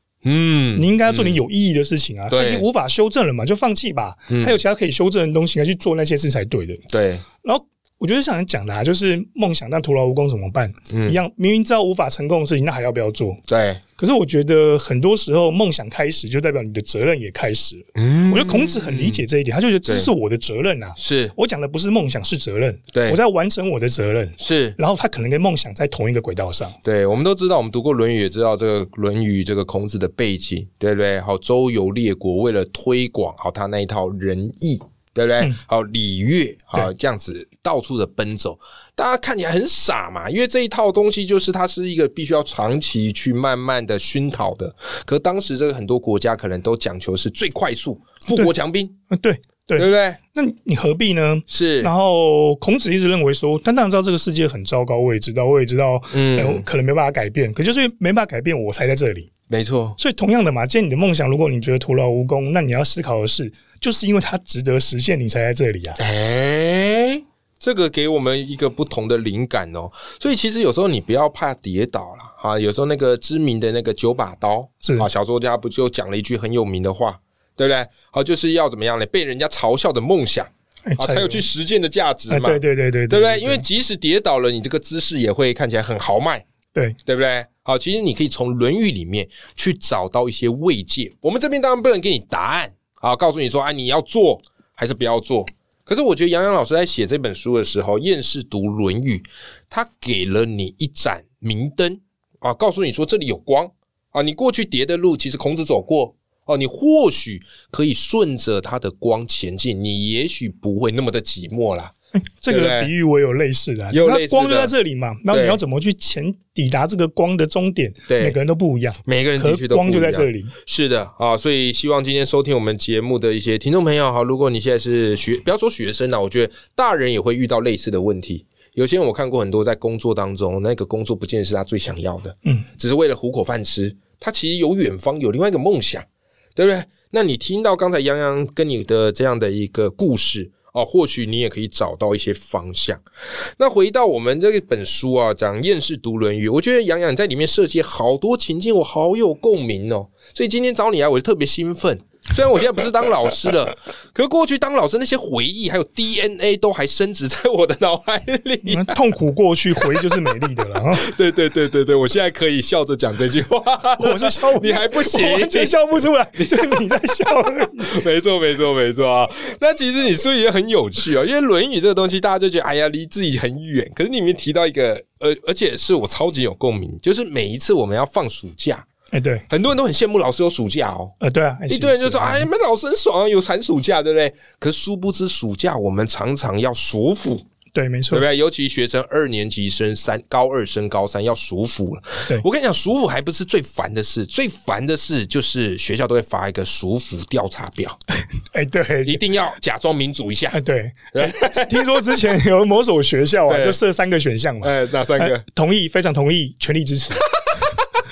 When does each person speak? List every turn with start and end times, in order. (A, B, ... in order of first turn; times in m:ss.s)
0:00.2-0:01.4 A
0:00.8-0:06.8 B
0:02.3-0:02.7 A
0:04.3-0:04.6 A
0:06.9-0:07.2 A
0:07.4-0:13.4 B
0:10.9-0:11.2 A
0:13.5-0:13.8 A
0:14.0-0:26.8 B
0:18.0-0:19.2 A
0:21.0-0:21.3 A
0:22.9-0:23.2 A
0:24.4-0:24.8 A
0:26.8-0:48.9 A
0:49.1-0:59.3 B
0:49.8-0:50.2 A
0:51.5-0:51.9 A
0:56.1-0:56.7 A
0:59.5-1:00.0 A
1:00.0-1:06.0 B
1:06.0-1:26.4 A
1:14.8-1:15.1 B
1:20.9-1:21.4 B
1:22.3-1:23.6 B
1:27.1-1:51.9 A
1:52.4-2:00.5 B
1:52.5-1:52.9 A
1:53.9-1:54.7 A
1:55.3-1:55.6 A
1:58.1-1:58.4 A
1:59.1-2:23.0 A
2:23.6-2:39.0 A
2:38.6-2:41.1 B
2:40.9-2:45.7 A
2:44.0-2:47.9 B
2:46.4-2:46.8 A
2:47.8-2:58.9 A
2:59.1-2:59.5 B
2:59.5-3:01.2 A
3:01.2-3:02.5 B
3:01.7-3:07.4 A
3:07.7-3:08.2 B
3:08.1-3:18.0 A
3:18.5-3:19.2 B
3:19.0-3:20.6 A
3:20.5-3:27.2 B
3:21.1-3:22.0 A
3:23.5-3:23.8 A
3:24.6-3:25.4 A
3:27.5-3:27.8 A